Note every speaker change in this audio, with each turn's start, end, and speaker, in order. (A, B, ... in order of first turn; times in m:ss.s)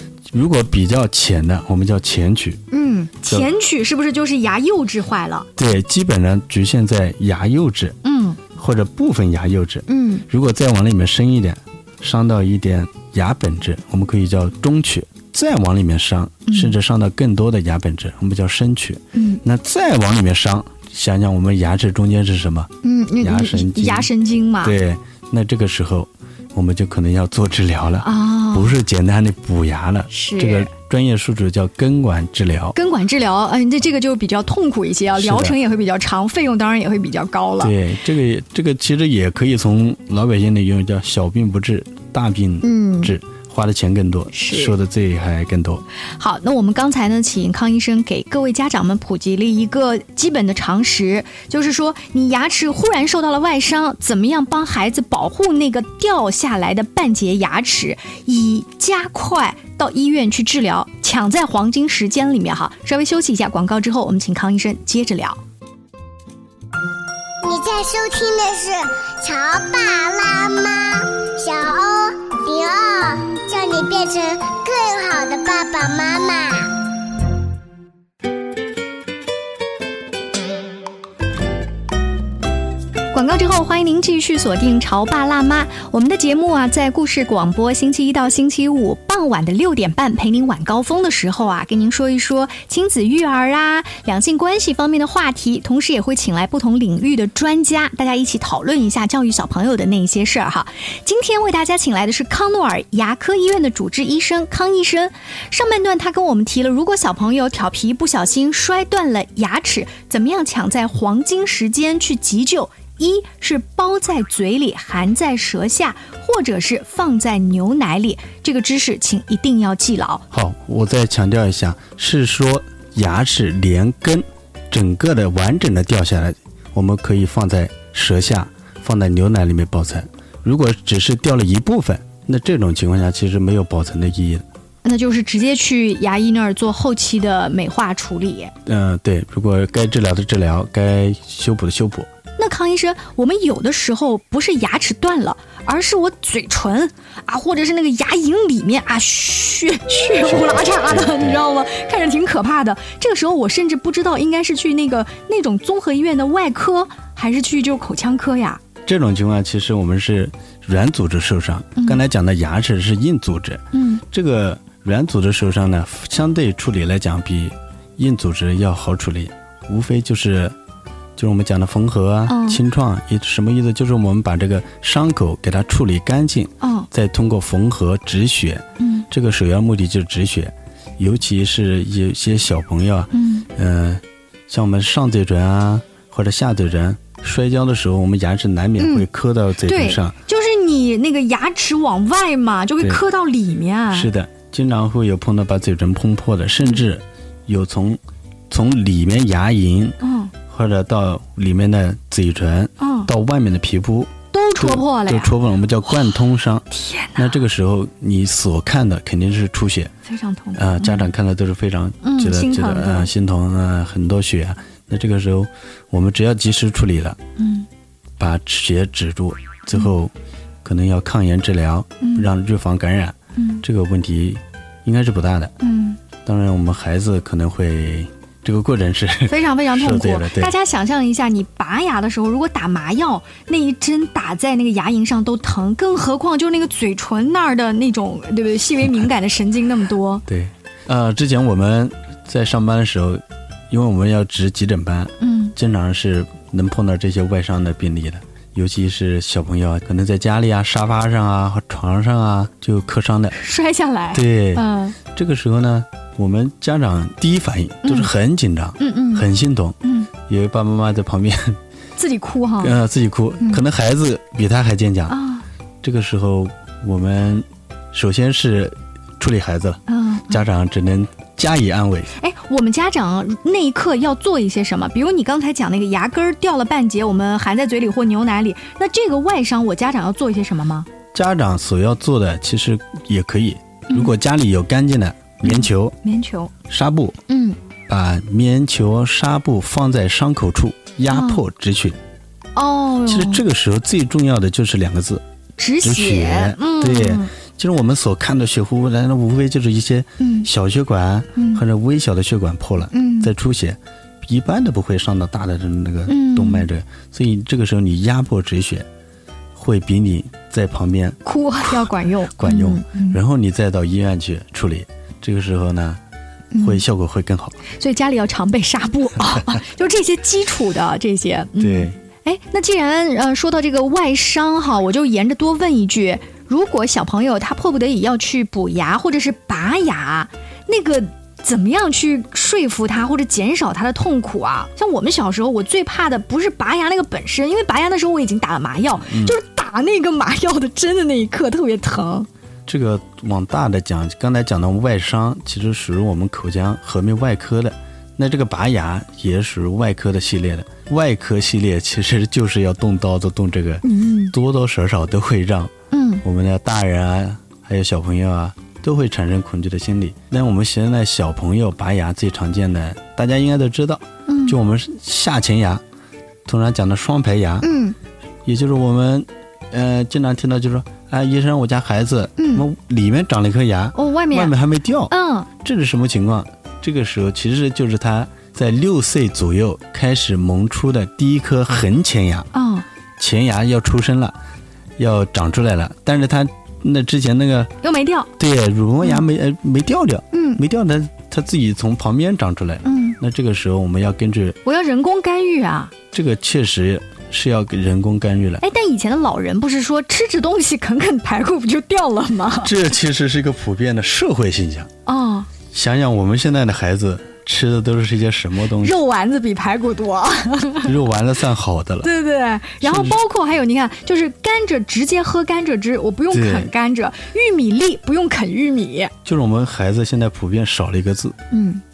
0:00.3-0:02.6 A
0:02.7-0:05.5 B
0:05.6-0:08.0 A
0:08.0-0:08.4 B
0:08.6-0:24.1 A
0:09.9-0:10.2 B
0:16.5-0:16.8 B
0:19.1-0:19.4 B
0:22.8-0:24.8 B
0:24.6-0:32.8 A
0:28.0-0:28.8 B
0:30.1-0:30.7 B
0:32.8-0:37.7 B
0:35.2-0:35.6 A
0:37.6-0:45.8 A
0:42.6-0:43.1 B
0:44.3-0:44.8 B
0:46.2-1:05.4 B
1:07.4-1:16.7 C
1:23.1-2:00.2 B
2:00.3-2:14.4 A
2:14.8-2:18.5 B
2:18.7-2:22.1 A
2:22.4-2:38.6 B
2:30.2-2:31.4 A
2:38.8-2:50.6 A
2:43.7-2:44.0 B
2:51.2-3:10.2 A
2:52.3-2:52.6 B
2:56.6-2:56.9 B
2:58.8-2:59.1 B
3:03.1-3:03.5 B
3:08.8-3:09.1 B
3:09.6-3:14.1 B
3:13.9-3:20.0 A
3:20.0-3:20.3 B
3:20.5-3:29.9 A
3:22.8-3:23.1 B
3:24.3-3:25.4 B
3:26.7-3:27.4 B
3:30.0-3:31.1 B
3:30.5-3:37.2 A
3:32.0-3:33.1 B
3:37.4-3:37.7 B
3:38.2-3:40.1 A
3:40.6-3:45.5 A
3:42.0-3:42.3 B
3:43.4-3:43.6 B
3:45.6-3:46.0 B
3:46.2-3:50.5 A
3:49.3-4:00.2 B
4:00.3-4:13.4 A
4:05.2-4:05.5 B
4:13.3-4:15.0 B
4:14.1-4:21.6 A
4:17.8-4:18.1 B
4:18.8-4:19.3 B
4:19.8-4:20.1 B
4:22.0-4:22.8 B
4:22.6-4:25.2 A
4:25.1-4:25.4 B
4:25.8-4:32.1 A
4:29.9-4:30.4 B
4:32.2-4:40.9 B
4:41.1-4:46.0 A
4:45.4-4:46.5 B
4:46.7-4:47.2 A
4:47.3-4:47.6 B
4:47.9-4:52.0 A
4:51.1-4:51.4 B
4:52.6-4:53.4 B
4:53.1-4:55.2 A
4:55.6-4:57.3 B
4:55.8-5:08.9 A
5:00.2-5:00.5 B
5:01.4-5:01.6 B
5:02.9-5:03.3 B
5:06.1-5:06.7 B
5:09.6-5:11.2 A
5:11.2-5:13.2 B
5:11.7-5:16.0 A
5:16.5-5:16.8 B
5:16.6-5:17.6 A
5:17.7-5:42.3 B
5:21.6-5:22.0 A
5:39.1-5:39.4 A
5:42.7-5:55.7 A
5:53.8-5:54.4 B
5:55.9-5:56.2 B
5:56.2-6:05.8 A
6:04.3-6:04.6 B
6:06.5-6:07.7 A
6:07.6-6:08.0 B
6:08.4-6:22.5 A
6:12.4-6:12.7 B
6:13.9-6:14.5 B
6:15.1-6:15.5 B
6:22.5-6:22.9 B
6:23.2-6:24.4 A
6:25.0-6:27.7 A
6:27.8-6:28.3 B
6:28.4-6:34.6 A
6:30.3-6:30.6 B
6:32.8-6:33.2 B
6:34.6-6:35.9 B
6:36.1-6:38.6 A
6:38.6-6:42.8 B
6:42.6-6:44.9 A
6:45.1-6:45.5 B
6:45.7-6:49.0 A
6:48.8-6:51.0 B
6:50.8-6:52.1 A
6:52.0-6:59.1 B
6:52.8-6:53.2 A
6:56.3-6:56.7 A
6:59.2-7:01.4 A
7:01.5-7:01.8 B